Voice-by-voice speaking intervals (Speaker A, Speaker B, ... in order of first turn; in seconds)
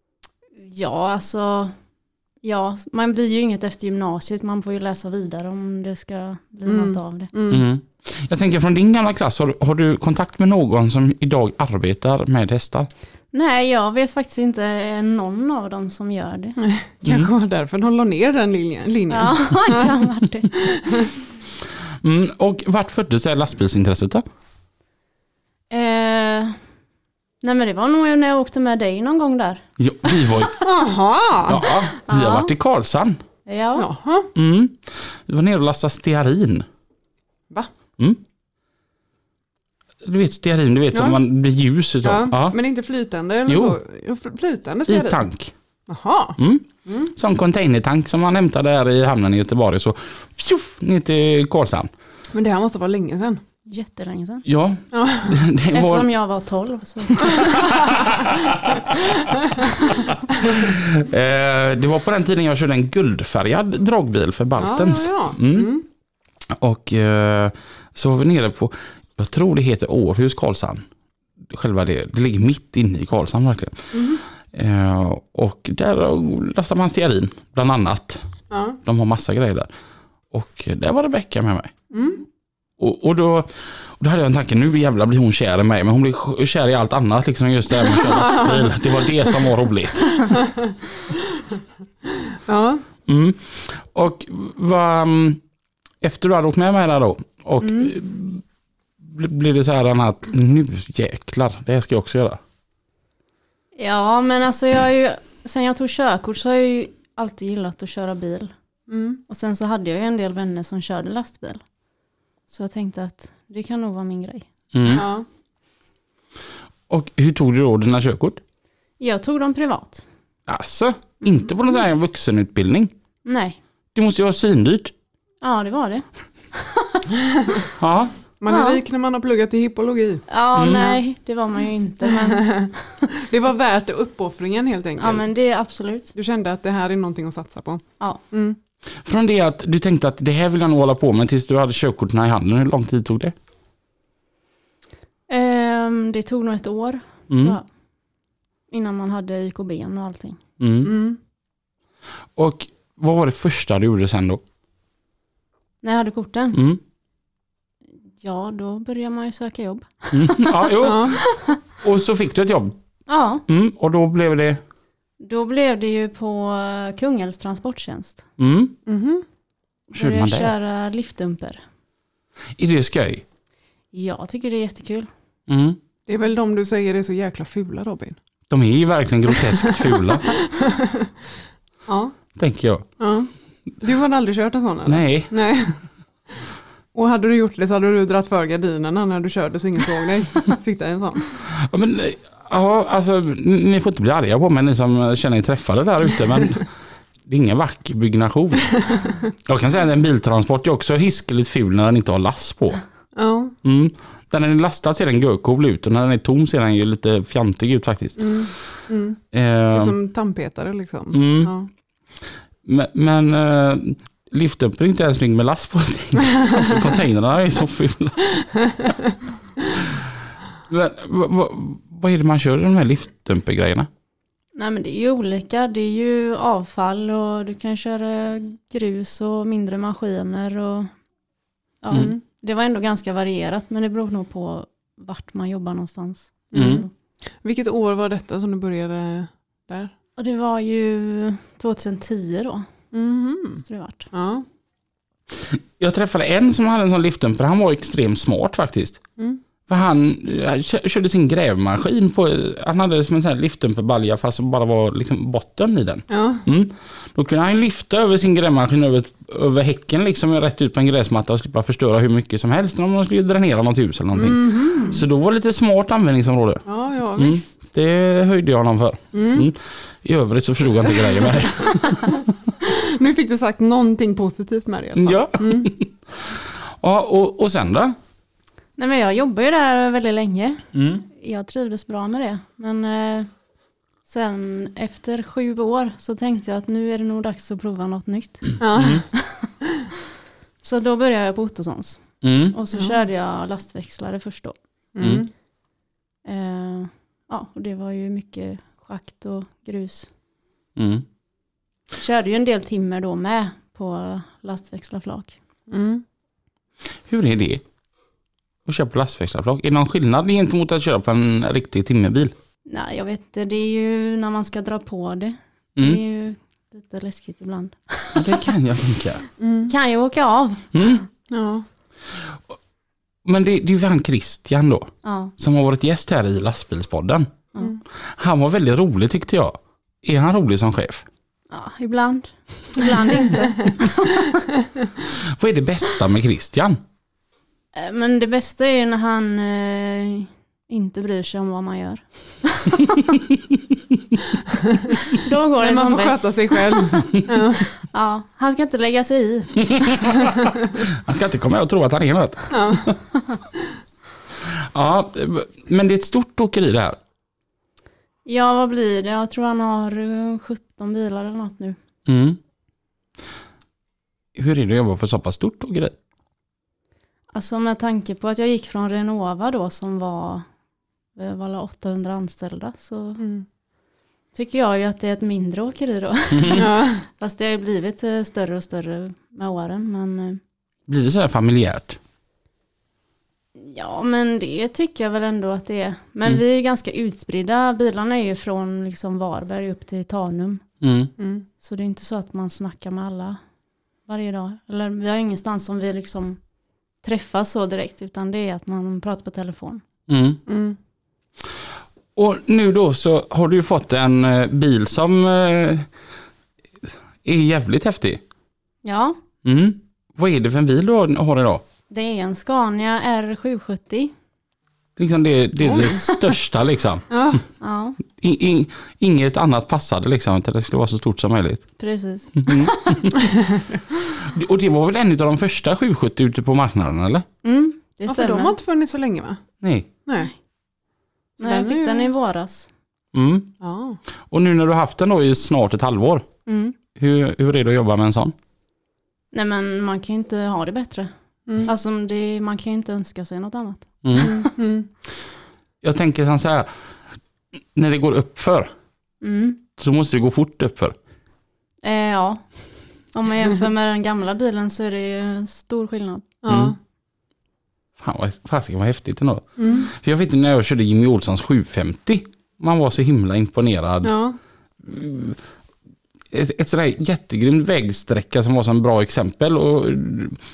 Speaker A: 0.6-1.7, 2.4-7.3, 13.3-16.6, 19.1-20.6, 25.7-26.6, 27.4-29.6, 32.1-32.5, 33.5-33.9, 53.7-54.4, 55.7-57.5, 97.6-97.9, 103.8-108.5, 109.3-111.6, 112.5-114.5, 119.0-120.0, 121.2-121.5, 123.2-123.6, 125.4-127.0, 128.5-128.8, 130.3-132.7, 135.0-136.1, 145.3-147.6, 148.7-150.4, 155.8-156.6, 158.2-161.5, 163.1-163.4, 165.2-168.2, 169.9-171.6, 173.9-175.1, 224.6-230.9, 231.8-236.9, 240.2-242.7, 243.6-244.1, 278.8-283.3, 284.1-288.6, 289.1-289.5, 290.6-294.6, 296.2-300.1, 302.0-305.4, 312.7-318.5, 319.7-320.9, 325.0-325.3, 331.5-334.3, 337.8-342.0, 342.5-342.9, 345.1-346.9, 347.9-350.1, 358.2-361.8, 367.3-370.4, 371.1-373.2, 374.4-380.4, 383.6-390.6, 391.6-393.4, 394.1-396.4, 397.0-399.8, 408.8-409.2, 411.9-414.1, 417.6-418.0, 421.8-423.1, 427.4-428.6, 431.4-432.7, 436.4-436.8, 439.3-441.1, 441.6-444.5, 449.2-449.6, 451.8-452.4, 453.1-456.4
Speaker B: 6.7-7.7, 16.6-19.9, 20.6-21.1, 30.5-31.9, 33.8-34.3, 40.9-41.2, 42.0-45.2, 45.9-47.1, 52.3-53.4, 54.9-55.4, 64.6-65.8, 73.9-74.2, 78.5-78.8, 81.9-82.2, 87.9-88.7, 90.1-91.4, 92.1-92.8, 108.9-109.2, 114.9-115.3, 128.4-130.8, 132.1-135.3, 136.1-138.6, 150.8-151.2, 160.8-161.2, 168.9-169.2, 176.1-178.2, 179.4-181.1, 181.9-182.1, 183.0-183.3, 183.8-185.8, 186.9-191.3, 203.2-203.5, 208.2-211.7, 218.4-218.9, 231.9-232.2, 236.5-236.9, 237.4-239.9, 242.9-244.4, 256.1-256.4, 264.1-265.0, 266.6-267.5, 269.1-269.5, 272.6-275.7, 288.6-289.1, 294.9-295.3, 305.7-306.0, 319.4-319.7, 321.3-321.6, 345.6-347.7, 352.5-352.9, 373.2-373.4, 376.5-377.0, 391.2-391.4, 400.5-400.8, 415.6-416.1, 417.1-417.4, 428.1-429.4, 430.1-430.3, 431.4-432.1, 433.6-434.0, 444.1-444.9, 456.4-456.8, 459.6-459.9, 464.0-464.4
Speaker C: 7.5-12.9, 17.1-17.3, 22.0-24.2, 29.8-30.6, 31.5-33.2, 34.4-36.7, 40.0-42.6, 43.5-43.8, 44.9-45.5, 46.4-51.9, 54.5-56.1, 57.2-59.2, 60.5-65.7, 66.5-70.8, 71.5-78.2, 78.8-79.7, 80.3-81.7, 82.8-90.4, 93.1-95.4, 96.0-98.4, 99.0-102.4, 114.7-115.0, 116.9-118.4, 120.5-122.9, 123.9-124.9, 127.8-128.1, 130.6-130.9, 139.1-143.3, 147.3-147.6, 150.6-150.9, 152.4-154.4, 156.5-156.8, 160.1-161.2, 161.8-162.8, 163.5-164.6, 168.4-168.8, 169.9-170.5, 172.6-173.2, 175.5-175.8, 178.5-180.4, 182.4-182.9, 184.9-185.3, 191.6-196.6, 197.3-198.8, 199.4-202.8, 203.6-208.5, 209.3-209.9, 211.1-211.5, 212.6-218.2, 220.7-223.9, 236.5-236.8, 245.5-249.0, 249.7-266.6, 267.1-272.2, 275.0-277.9, 280.8-281.0, 292.2-292.6, 300.8-301.1, 307.1-307.6, 308.6-312.3, 318.1-319.2, 320.7-321.0, 323.2-327.3, 328.1-331.1, 335.2-336.8, 349.7-350.3, 350.8-352.8, 354.4-357.0, 362.1-362.4, 364.4-365.9, 376.4-376.6, 380.9-382.0, 390.8-391.1, 400.1-400.4, 402.1-405.9, 406.9-408.2, 409.4-411.6, 415.0-417.4, 418.1-421.7, 422.4-423.1, 424.2-427.2, 429.6-429.9, 433.1-433.5, 434.3-436.2, 436.9-438.4, 444.0-444.3, 445.8-446.7, 447.8-448.7, 449.8-450.9, 456.5-456.8, 458.0-464.1, 464.8-465.4, 466.3-470.4